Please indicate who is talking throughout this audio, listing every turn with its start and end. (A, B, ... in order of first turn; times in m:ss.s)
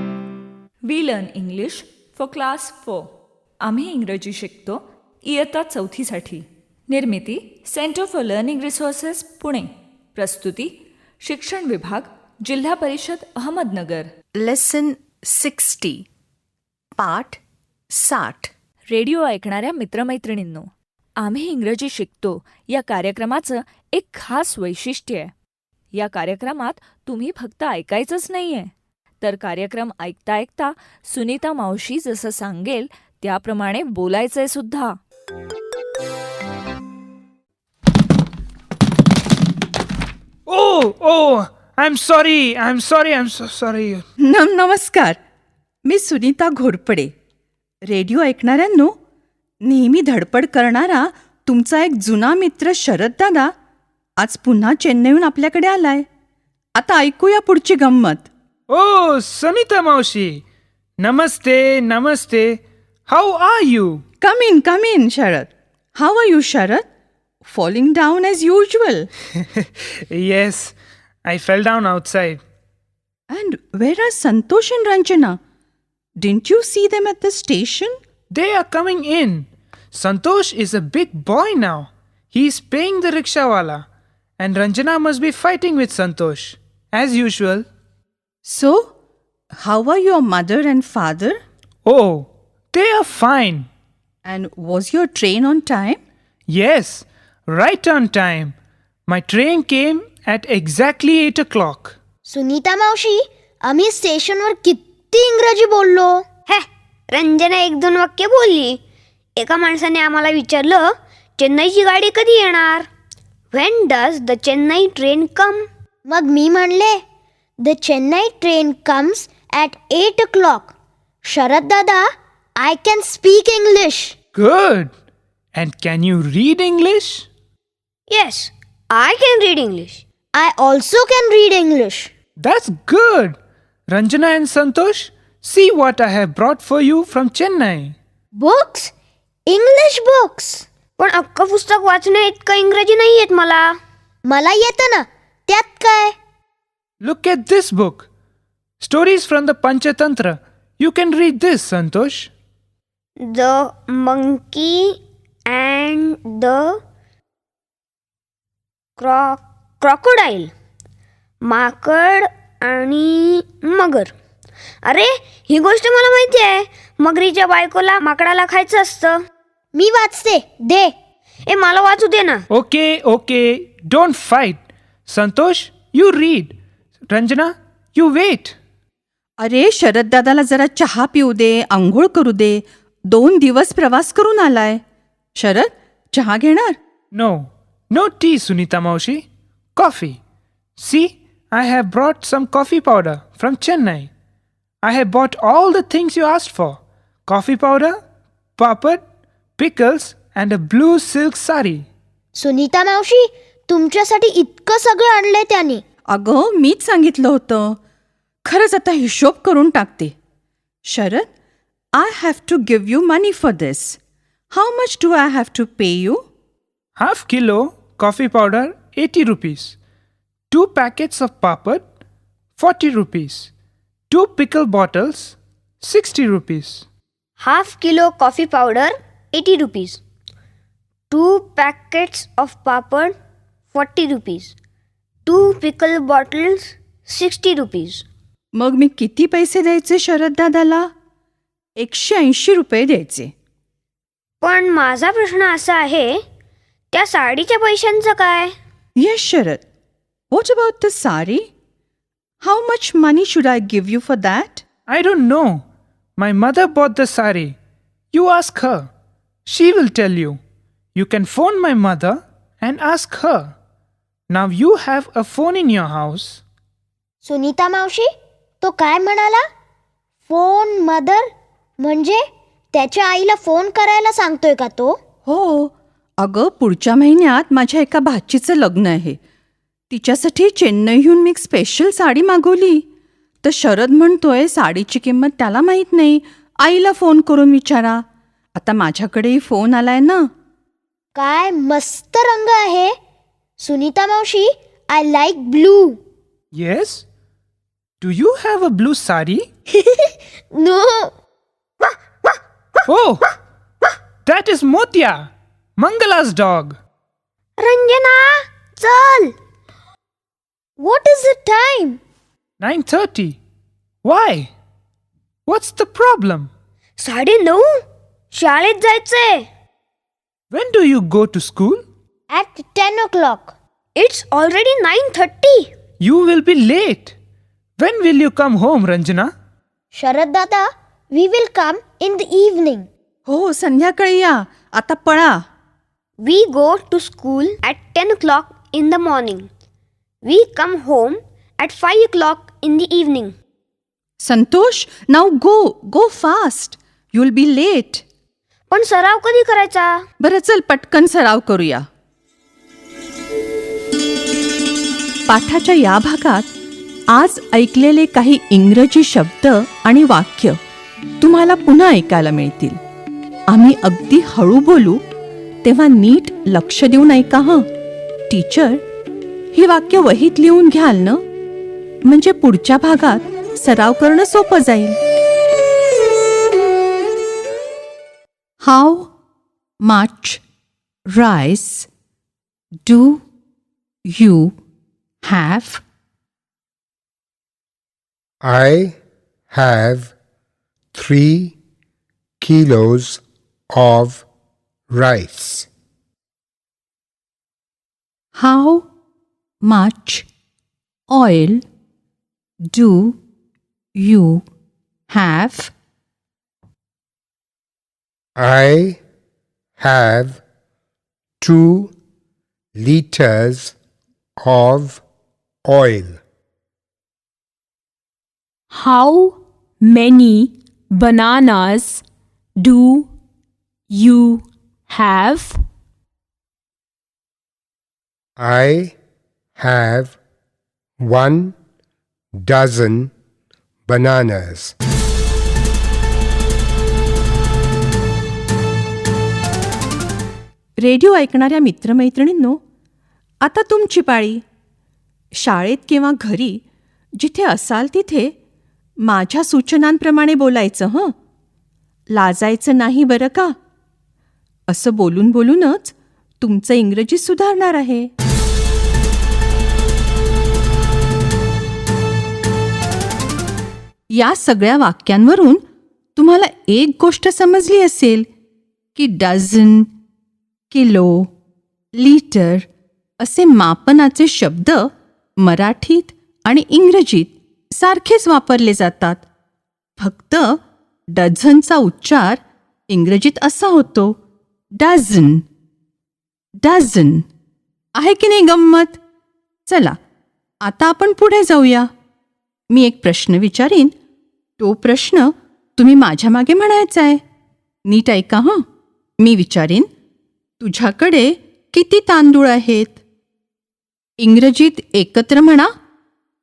0:00.8-0:03.1 A
0:03.6-0:14.1 A
0:14.4-0:16.0 B
0:17.0-0:17.4 B
0:17.9-0:18.5 B
0:18.9-0:25.3 A
0:25.9-0:35.0 A
0:40.5-0:44.0 C
0:44.2-0:45.2 B
0:45.8-0:47.1 B
0:47.8-0:49.0 B
0:49.6-0:53.5 B
0:54.2-0:56.0 B
0:56.8-0:58.3 B
0:58.7-1:00.4 C
1:01.0-1:04.0 C
1:04.2-1:06.8 B
1:07.4-1:09.1 B
1:09.6-1:12.4 C
1:13.3-1:15.4 B
1:16.2-1:17.9 B
1:18.3-1:23.8 C
1:24.4-1:27.6 C
1:28.4-1:28.9 B
1:29.5-1:31.4 B
1:31.8-1:33.7 C
1:34.2-1:36.0 B
1:36.5-1:38.5 C
1:39.1-1:42.0 C
1:42.2-1:46.3 D
1:46.4-1:48.8 E
1:49.4-1:50.8 E
1:51.4-1:52.9 E
1:53.5-1:55.6 E
1:56.0-1:57.0 D
1:57.6-2:00.7 D
2:01.2-2:02.0 D
2:02.6-2:04.1 D
2:04.3-2:04.9 C
2:05.5-2:07.3 C
2:08.1-2:10.0 E
2:10.3-2:12.1 D
2:12.4-2:13.3 C
2:13.9-2:18.0 C
2:18.3-2:18.9 D
2:19.5-2:20.7 D
2:21.0-2:23.7 E
2:24.2-2:26.2 D
2:27.0-2:28.1 C
2:28.8-2:32.3 C
2:33.2-2:36.7 E
2:39.0-2:40.5 E
2:41.4-2:44.1 E
2:44.8-2:49.2 E
2:49.7-2:50.9 D
2:51.5-2:52.4 E
2:52.5-2:56.6 C
2:57.1-2:58.6 C
2:59.4-3:04.8 B
3:05.4-3:06.8 B
3:07.1-3:10.2 C
3:10.8-3:14.1 C
3:14.8-3:18.0 C
3:18.6-3:19.0 C
3:19.6-3:21.9 C
3:22.3-3:25.8 D
3:26.1-3:27.8 B
3:28.4-3:30.1 B
3:30.8-3:31.3 B
3:31.9-3:34.0 B
3:34.5-3:36.2 B
3:37.0-3:39.8 C
3:40.5-3:41.8 C
3:42.6-3:43.5 C
3:44.1-3:46.8 C
3:47.4-3:50.0 E
3:51.1-3:53.1 E
3:53.7-3:54.5 E
3:55.3-3:58.0 E
3:58.6-4:00.9 B
4:01.8-4:03.3 B
4:04.4-4:06.1 E
4:06.9-4:08.5 E
4:09.0-4:09.6 B
4:10.3-4:11.5 B
4:12.4-4:14.6 B
4:14.9-4:15.6 C
4:16.2-4:17.6 C
4:18.1-4:18.9 C
4:19.5-4:20.4 C
4:20.9-4:23.5 C
4:24.3-4:26.4 C
4:27.2-4:28.1 D
4:28.6-4:29.4 D
4:30.3-4:31.3 D
4:31.8-4:32.2 D
4:32.7-4:35.0 D
4:35.2-4:39.2 B
4:39.9-4:42.8 B
4:43.4-4:48.0 B
4:48.5-4:50.3 B
4:51.1-4:52.9 D
4:53.6-4:56.0 D
4:56.5-4:57.0 C
4:58.0-4:59.5 C
4:59.8-5:01.1 D
5:02.8-5:03.2 C
5:04.2-5:06.8 C
5:07.6-5:08.3 E
5:08.8-5:09.3 D
5:10.8-5:12.0 D
5:12.6-5:13.4 C
5:14.0-5:14.5 C
5:15.5-5:16.5 C
5:17.0-5:17.6 E
5:18.3-5:19.4 E
5:20.5-5:21.8 C
5:22.3-5:23.5 D
5:24.0-5:25.7 E
5:26.0-5:27.1 C
5:27.8-5:29.3 C
5:29.9-5:32.9 D
5:33.2-5:35.4 B
5:36.2-5:39.5 E
5:40.2-5:43.3 E
5:44.2-5:48.0 B
5:48.7-5:50.0 E
5:50.2-5:51.8 B
5:55.3-5:56.5 B
5:57.1-6:00.6 B
6:01.2-6:02.8 B
6:03.5-6:05.0 B
6:05.6-6:07.6 B
6:08.3-6:08.8 B
6:09.5-6:11.2 B
6:12.1-6:15.0 B
6:18.6-6:19.1 B
6:19.8-6:20.4 B
6:21.1-6:21.9 B
6:22.8-6:23.2 B
6:24.1-6:24.5 B
6:25.2-6:25.8 B
6:28.4-6:29.0 F
6:29.5-6:30.1 F
6:30.9-6:31.5 F
6:32.4-6:34.2 F
6:34.9-6:35.7 F
6:38.3-6:38.8 B
6:39.6-6:40.3 B
6:41.1-6:41.6 B
6:42.7-6:43.2 B
6:43.9-6:44.4 B
6:45.1-6:45.7 B
6:48.4-6:49.0 F
6:49.8-6:50.4 F
6:51.4-6:51.9 F
6:52.8-6:53.8 F
6:54.4-6:55.0 F
6:55.6-6:56.2 F
6:58.7-7:02.0 G
7:02.6-7:03.1 G
7:03.9-7:05.6 G
7:08.4-7:08.9 F
7:09.6-7:10.2 F
7:11.0-7:11.5 F
7:12.3-7:13.1 F
7:13.9-7:14.7 F
7:20.8-7:22.6 B
7:23.4-7:24.4 B
7:25.3-7:26.6 B
7:27.2-7:28.3 B
7:29.0-7:31.1 B
7:32.1-7:33.5 B
7:34.7-7:38.1 B
7:44.1-7:45.6 B
7:46.2-7:48.3 B
7:48.9-7:49.9 B
7:50.7-7:51.3 B
7:52.0-7:52.7 B
7:53.2-7:54.9 B
7:55.4-7:59.2 B
8:00.0-8:00.6 B
8:01.1-8:04.2 B
8:04.8-8:05.4 B
8:06.6-8:07.2 B
8:08.0-8:09.0 B
8:09.7-8:09.9 B
8:10.6-8:11.9 B
8:12.7-8:13.9 B
8:14.6-8:17.2 B
8:17.8-8:18.6 B
8:19.2-8:19.9 B
8:20.6-8:23.0 B
8:24.2-8:25.7 B